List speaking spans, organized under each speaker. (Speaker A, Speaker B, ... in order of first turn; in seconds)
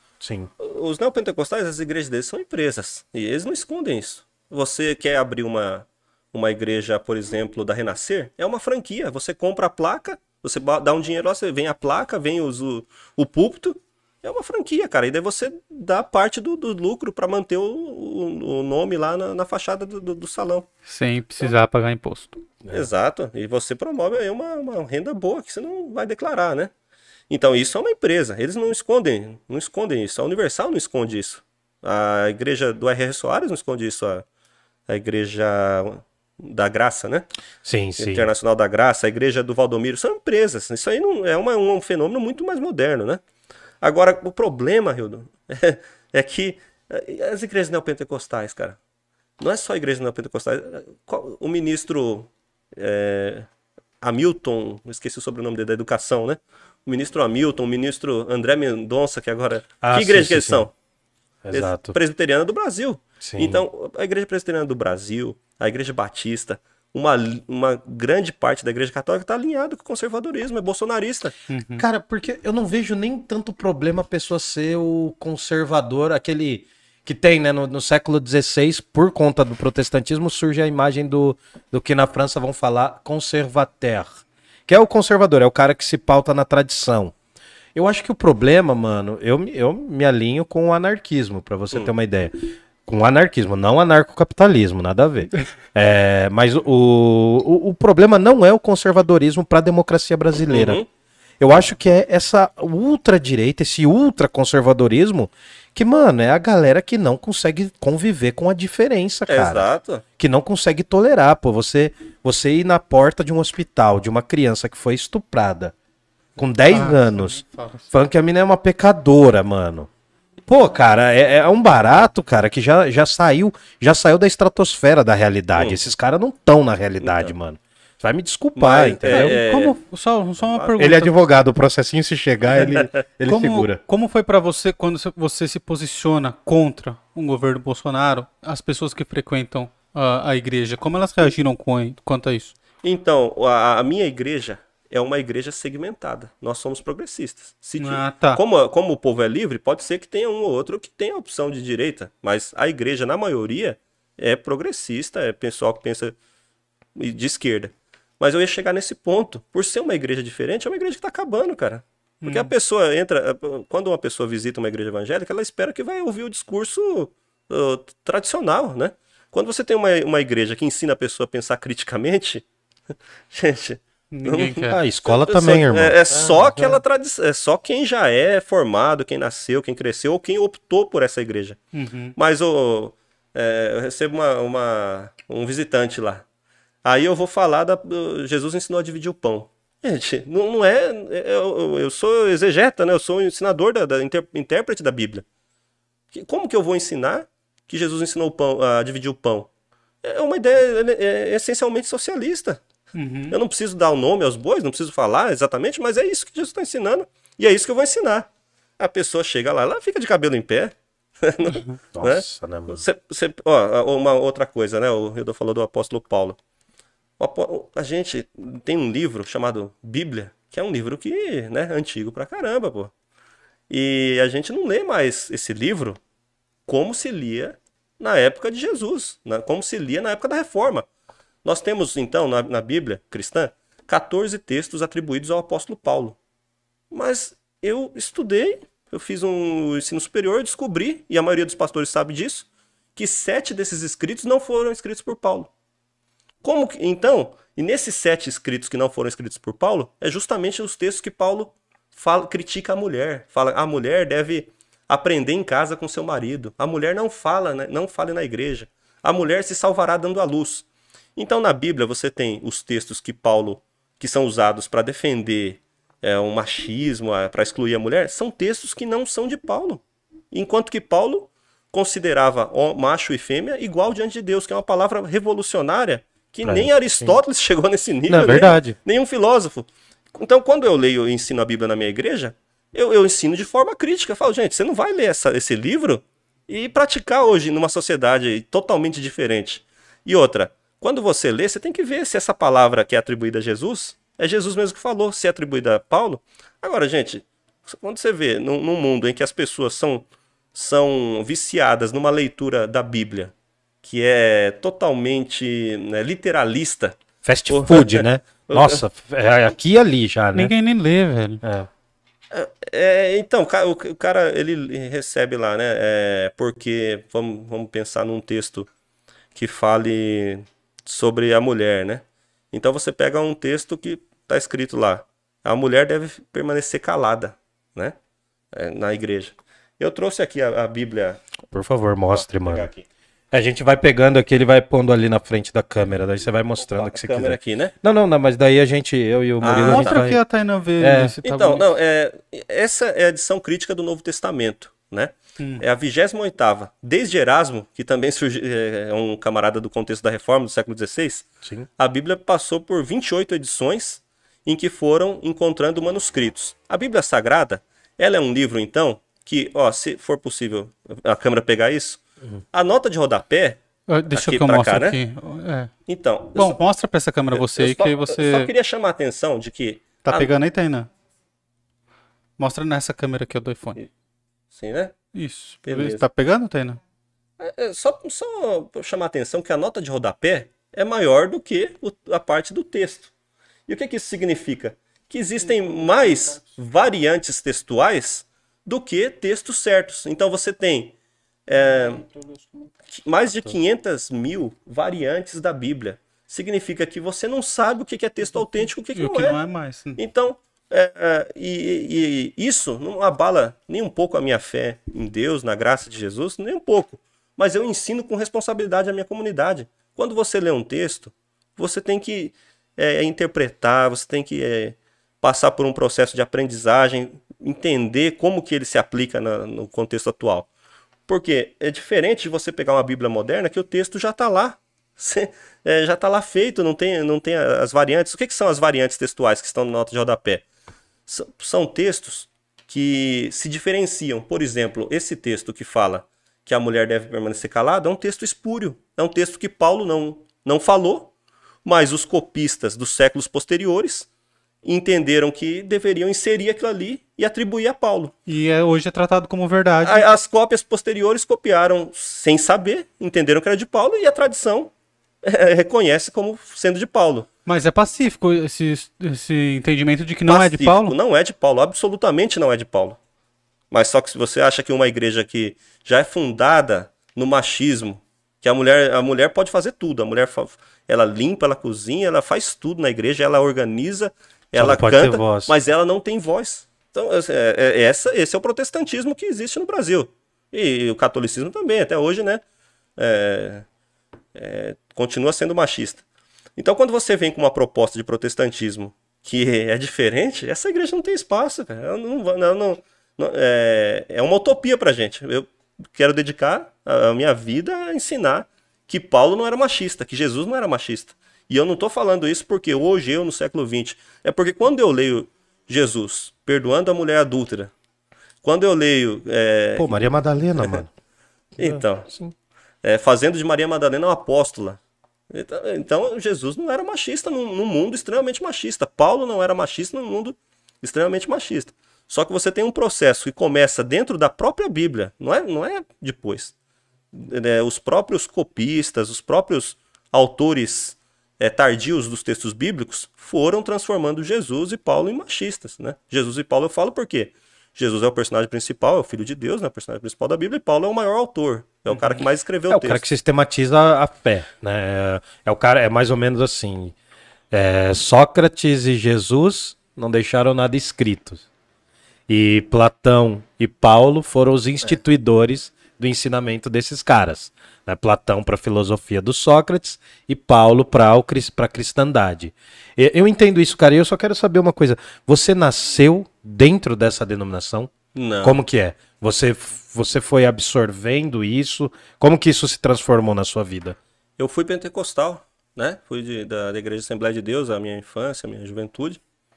Speaker A: 0.2-0.5, 37.6-38.3, 59.8-60.7, 61.5-62.0, 63.2-63.7, 71.8-84.1, 84.7-87.1, 87.8-92.3, 92.8-100.8, 101.4-115.7, 116.4-119.9, 120.5-129.4, 130.8-133.8, 174.7-176.8, 212.0-212.8, 276.4-277.2, 278.1-278.8, 307.2-310.5, 311.4-311.7, 331.5-332.7, 333.3-340.2, 340.8-341.1, 474.5-475.5, 509.8-510.9, 511.6-512.3, 542.7-546.9, 547.5-551.5, 552.3-567.9, 568.4-574.0
Speaker B: 0.6-20.7, 22.7-26.7, 27.3-34.2, 34.9-37.3, 38.0-43.2, 43.8-48.8, 49.4-53.5, 54.0-60.7, 61.5-71.3, 100.5-100.9, 109.3-110.0, 127.0-127.3, 128.6-129.8, 130.4-130.7, 142.8-156.2, 157.0-172.4, 173.3-181.6, 182.2-186.2, 186.8-195.2, 196.1-199.5, 200.0-202.6, 203.3-208.3, 208.8-216.4, 217.2-222.9, 223.7-226.0, 226.7-230.9, 231.4-236.2, 236.9-245.5, 246.4-269.8, 270.3-307.0, 307.5-308.8, 312.3-318.7, 319.4-327.9, 328.5-331.2, 332.1-332.9, 336.6-337.7, 339.4-340.0, 341.2-351.3, 351.8-362.0, 362.5-363.6, 364.1-365.0, 365.9-366.6, 367.3-370.3, 374.5-374.9, 375.6-376.0, 377.4-383.1, 383.7-390.9, 391.5-392.1, 392.9-399.4, 400.0-420.5, 421.1-430.4, 431.1-441.1, 441.6-444.1, 444.6-448.1, 449.8-454.7, 455.2-457.3, 460.3-463.0, 463.7-482.4, 483.0-483.7, 484.4-486.0, 486.6-507.7, 508.4-510.0, 511.6-512.1, 512.8-514.8, 515.3-526.5, 527.1-543.0, 568.1-568.6, 574.4-579.2
Speaker C: 20.9-22.4, 71.5-71.9, 116.7-117.9, 129.1-131.3, 133.3-142.5, 147.8-148.4, 162.2-162.5, 174.1-174.8, 181.7-182.2, 202.9-203.4, 310.4-311.4, 339.6-341.7, 345.4-345.6, 363.9-365.7, 366.4-368.5, 370.0-370.9, 372.4-373.8, 375.1-376.8, 398.9-400.0, 448.3-450.1, 457.5-460.9